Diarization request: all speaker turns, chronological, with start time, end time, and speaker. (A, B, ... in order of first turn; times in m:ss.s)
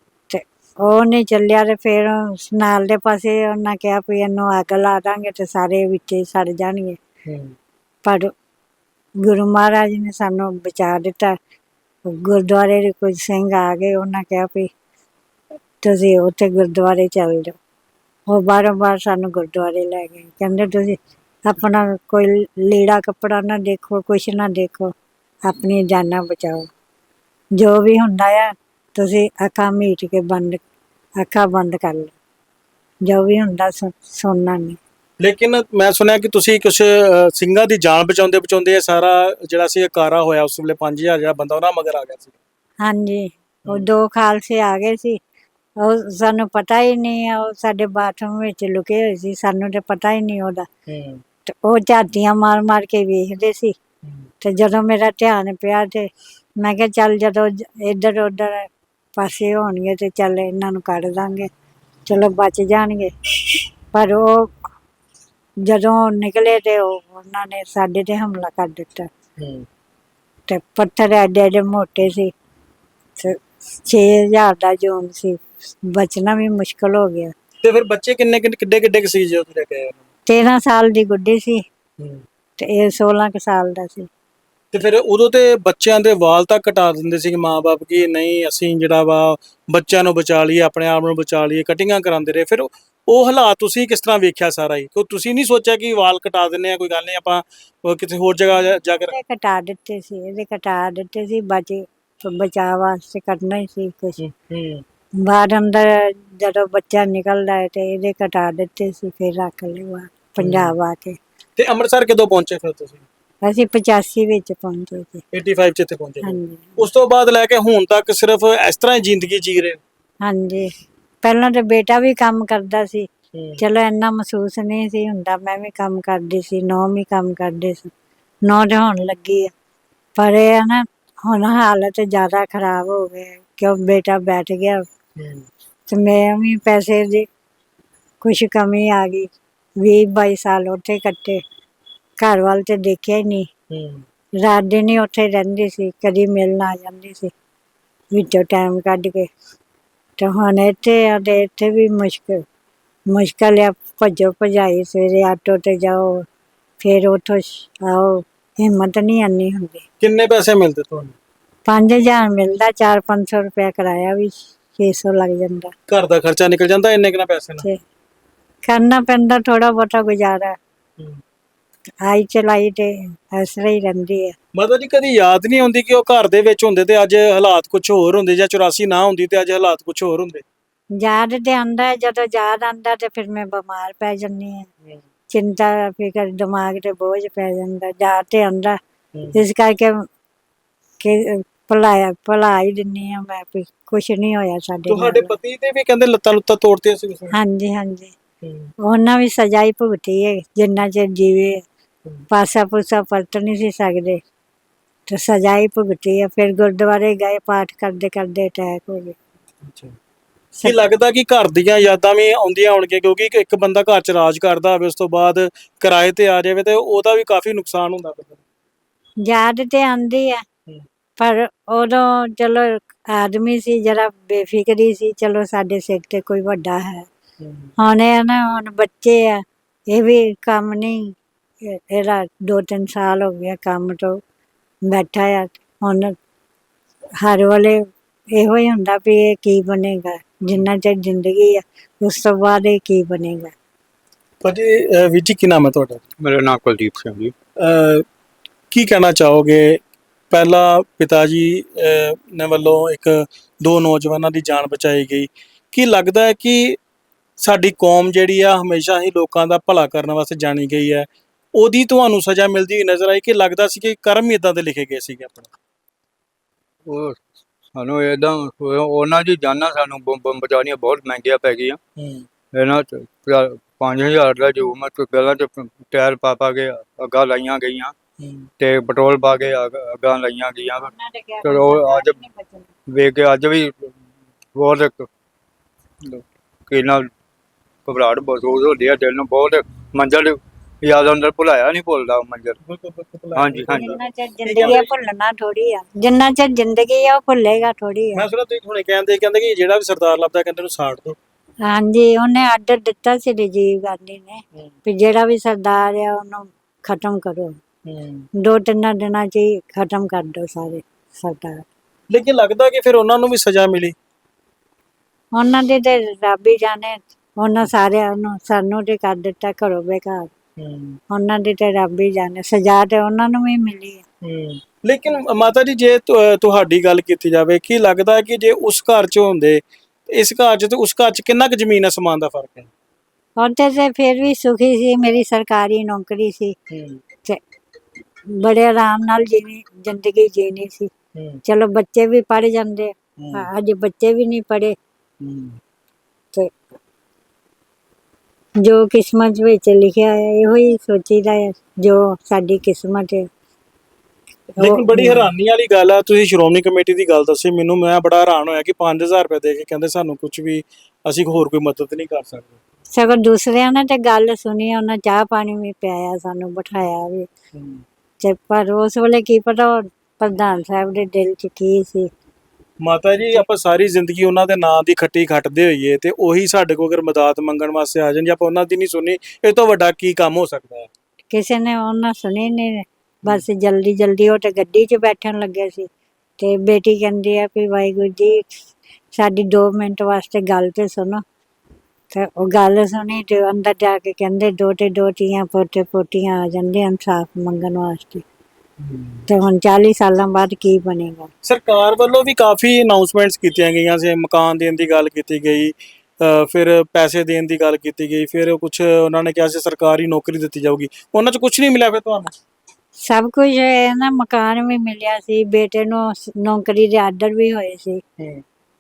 0:00.3-0:07.0 A
0:07.3-0:07.6 B
0:08.0-0:08.3 A
0:09.2-0:11.4 A
0:12.1-0:14.7 A
0:15.8-0:17.6 A
0:18.3-0:24.9 A
0:25.4-0:26.7 A
0:27.6-0:30.6 A
0:31.2-0:32.1 A
0:33.0-0:34.8 A
0:35.2-0:42.4 B
0:42.8-0:45.2 A
0:45.8-0:50.7 A
0:50.9-0:51.2 B
0:51.5-0:53.8 A
0:54.4-1:01.5 A
1:02.1-1:03.1 A
1:03.9-1:04.6 A
1:05.6-1:09.1 A
1:09.4-1:09.7 B
1:10.5-1:12.3 A
1:13.2-1:17.3 A
1:17.6-1:20.0 B
1:20.3-1:21.6 A
1:22.0-1:22.2 B
1:22.6-1:24.1 A
1:24.7-1:39.2 B
1:39.1-1:44.2 A
1:44.2-1:44.8 B
1:45.2-1:51.2 A
1:50.4-1:50.7 B
1:51.6-1:53.0 B
1:53.4-1:55.2 A
1:55.3-1:59.8 B
1:56.2-1:56.8 A
2:00.2-2:03.1 A
2:03.4-2:03.6 B
2:03.6-2:07.9 A
2:08.4-2:09.5 A
2:10.2-2:14.9 A
2:15.2-2:15.5 B
2:15.9-2:17.3 A
2:18.2-2:19.3 A
2:19.8-2:21.4 A
2:22.2-2:23.5 A
2:23.7-2:24.0 B
2:24.4-2:27.3 A
2:28.1-2:29.3 A
2:30.2-2:32.4 A
2:33.1-2:36.3 A
2:36.8-2:39.8 A
2:40.0-2:41.2 B
2:41.7-2:45.7 A
2:45.9-2:47.7 B
2:48.6-2:50.6 A
2:52.0-2:54.4 A
2:54.6-3:00.4 B
3:01.0-3:04.7 A
3:05.3-3:08.8 A
3:09.2-3:09.4 B
3:09.3-3:10.1 A
3:11.0-3:15.3 A
3:14.9-3:17.4 B
3:17.3-3:18.1 A
3:18.4-3:18.7 B
3:18.8-3:21.6 A
3:22.3-3:24.2 A
3:25.1-3:29.2 A
3:29.6-3:30.0 B
3:30.5-3:30.9 A
3:30.6-3:38.4 B
3:39.2-3:40.4 A
3:41.2-3:47.1 A
3:47.4-3:47.7 B
3:47.8-3:54.2 A
3:54.9-3:56.2 A
3:57.2-3:57.8 A
3:58.3-4:03.5 A
4:04.4-4:06.0 B
4:06.2-4:07.3 C
4:07.6-4:08.0 B
4:08.7-4:16.8 B
4:17.4-4:25.5 B
4:26.9-4:27.2 C
4:27.8-4:31.8 C
4:32.0-4:32.3 B
4:32.5-4:37.9 C
4:38.2-4:38.5 B
4:38.6-4:40.9 C
4:40.7-4:42.7 A
4:41.4-4:42.2 C
4:42.9-4:43.7 C
4:44.6-4:45.1 C
4:46.7-4:47.1 C
4:47.8-4:52.6 C
4:52.6-4:54.9 B
4:53.4-4:54.0 C
4:53.7-4:58.3 A
4:58.2-5:01.2 B
5:01.6-5:07.6 A
5:07.9-5:08.3 B
5:08.4-5:11.7 A
5:12.1-5:14.0 B
5:15.4-5:20.3 A
5:20.6-5:21.0 B
5:21.1-5:24.0 A
5:24.2-5:32.7 B
5:33.4-5:36.6 A
5:36.7-5:37.0 B
5:38.3-5:40.9 A
5:41.2-5:41.4 B
5:41.4-5:44.8 A
5:43.2-5:43.5 B
5:45.2-5:45.6 B
5:48.6-5:53.3 A
5:54.6-5:55.3 A
5:54.6-6:02.6 B
6:02.9-6:07.3 A
6:07.5-6:07.8 B
6:08.2-6:12.1 A
6:12.8-6:20.9 B
6:21.3-6:28.5 A
6:29.1-6:31.2 A
6:32.1-6:38.2 A
6:38.8-6:39.3 B
6:39.3-6:41.3 A
6:41.4-6:52.3 B
6:53.0-6:58.0 A